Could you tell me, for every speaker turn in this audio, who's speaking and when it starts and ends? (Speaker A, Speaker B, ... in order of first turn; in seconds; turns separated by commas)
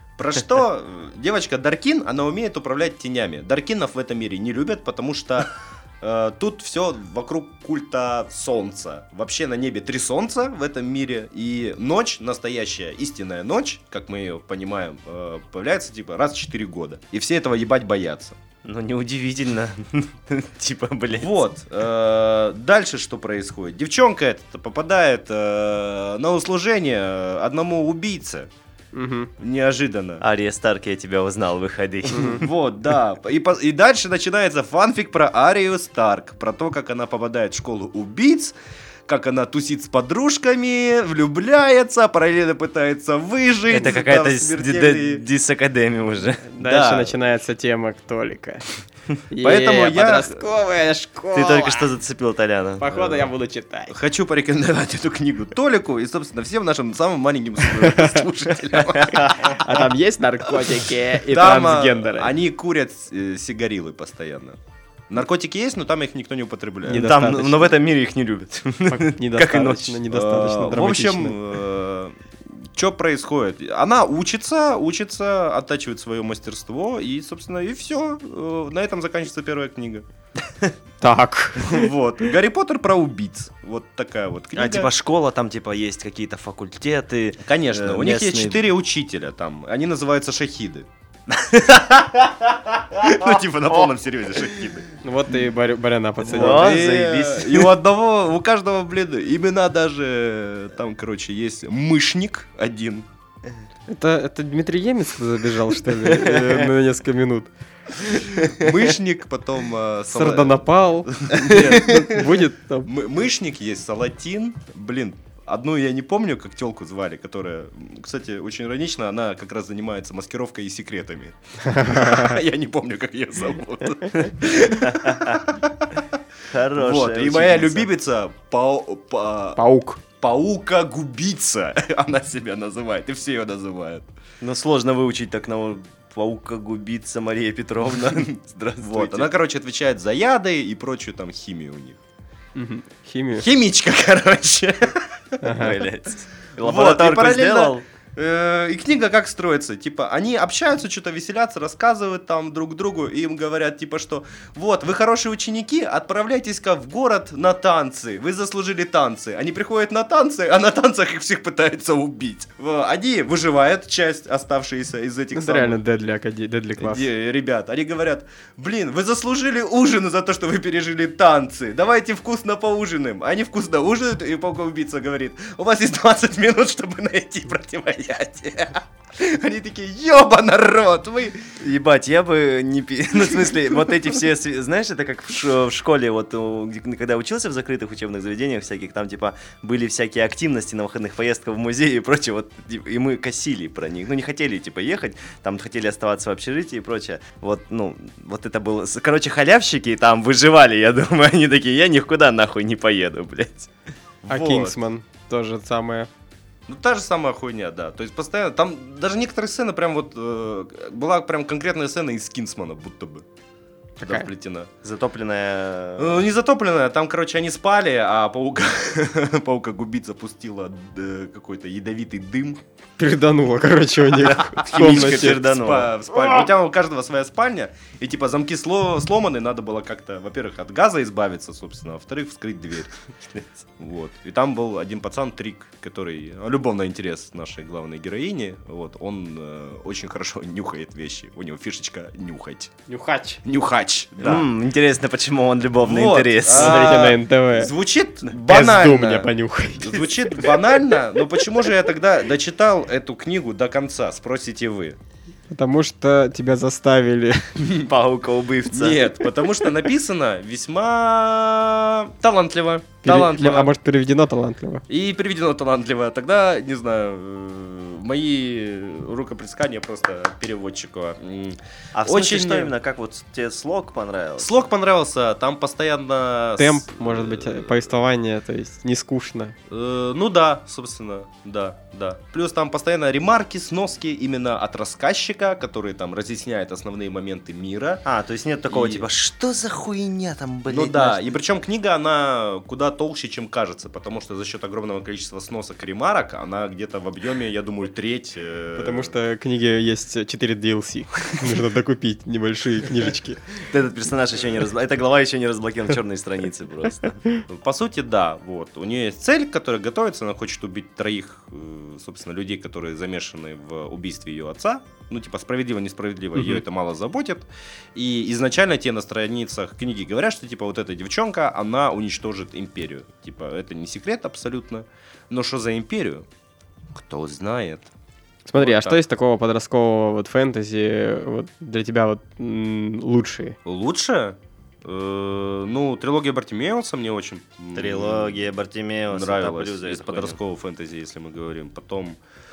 Speaker A: 0.2-18.4, Speaker B: 18.6-21.4, Speaker A: 21.1-28.5, Speaker C: 28.9-29.3, Speaker A: 29.4-30.2, Speaker B: 30.2-32.5, Speaker C: 32.1-32.4, Speaker A: 32.2-38.5, Speaker A: 39.1-45.2, Speaker B: 43.7-46.6, Speaker C: 46.5-48.6, Speaker A: 46.6-47.1, Speaker C: 49.3-51.9, Speaker A: 49.4-50.4, Speaker B: 51.3-53.0, Speaker C: 52.8-53.9, Speaker A: 52.9-53.2, Speaker A: 53.9-59.6, Speaker C: 57.8-58.3, Speaker B: 59.0-59.6, Speaker C: 59.4-62.3, Speaker A: 61.3-64.6, Speaker A: 65.1-67.2, Speaker C: 66.9-67.7, Speaker B: 66.9-70.0, Speaker C: 68.9-71.4, Speaker A: 70.1-80.1, Speaker C: 81.0-81.9, Speaker A: 81.6-84.9, Speaker B: 84.5-88.6, Speaker A: 87.5-90.9, Speaker B: 91.7-92.3, Speaker A: 92.9-94.9, Speaker C: 95.0-96.8, Speaker A: 96.2-103.1, Speaker B: 96.2-97.7, Speaker C: 103.9-107.5, Speaker A: 108.1-125.9, Speaker C: 110.1-112.9, Speaker C: 121.7-122.4, Speaker B: 124.8-125.4, Speaker B: 126.5-127.9, Speaker A: 126.8-129.6, Speaker C: 129.6-130.0, Speaker A: 130.2-134.1, Speaker B: 134.4-139.3, Speaker A: 137.9-142.0, Speaker C: 142.6-143.5, Speaker A: 143.4-145.4, Speaker C: 145.4-145.8, Speaker B: 145.5-147.8, Speaker A: 146.6-165.8, Speaker C: 165.3-167.1, Speaker A: 166.8-181.4, Speaker B: 181.6-203.7, Speaker A: 204.2-204.8, Speaker C: 204.3-206.1, Speaker A: 206.7-213.2, Speaker C: 214.0-214.3, Speaker A: 214.0-214.7, Speaker B: 214.8-216.2, Speaker A: 216.0-222.6, Speaker C: 223.0-225.4, Speaker A: 224.2-232.9, Speaker B: 224.5-225.9, Speaker A: 233.8-242.7, Speaker C: 242.9-243.4, Speaker A: 243.4-244.5, Speaker B: 244.2-247.1, Speaker A: 245.8-255.0, Speaker C: 246.5-247.7, Speaker C: 248.3-250.5, Speaker C: 255.5-257.5, Speaker B: 257.6-259.2, Speaker A: 258.7-263.7, Speaker C: 263.0-264.8, Speaker A: 264.9-272.7, Speaker B: 271.9-274.6, Speaker A: 274.4-277.9, Speaker C: 276.6-279.6, Speaker A: 279.7-288.0, Speaker B: 288.1-291.3, Speaker A: 288.7-289.1, Speaker A: 290.7-299.1, Speaker C: 298.8-303.4, Speaker B: 303.7-307.2, Speaker A: 307.5-326.3, Speaker A: 326.9-327.9, Speaker C: 328.5-333.6, Speaker A: 328.6-329.0, Speaker A: 333.6-338.5, Speaker B: 337.8-340.4, Speaker A: 339.1-342.2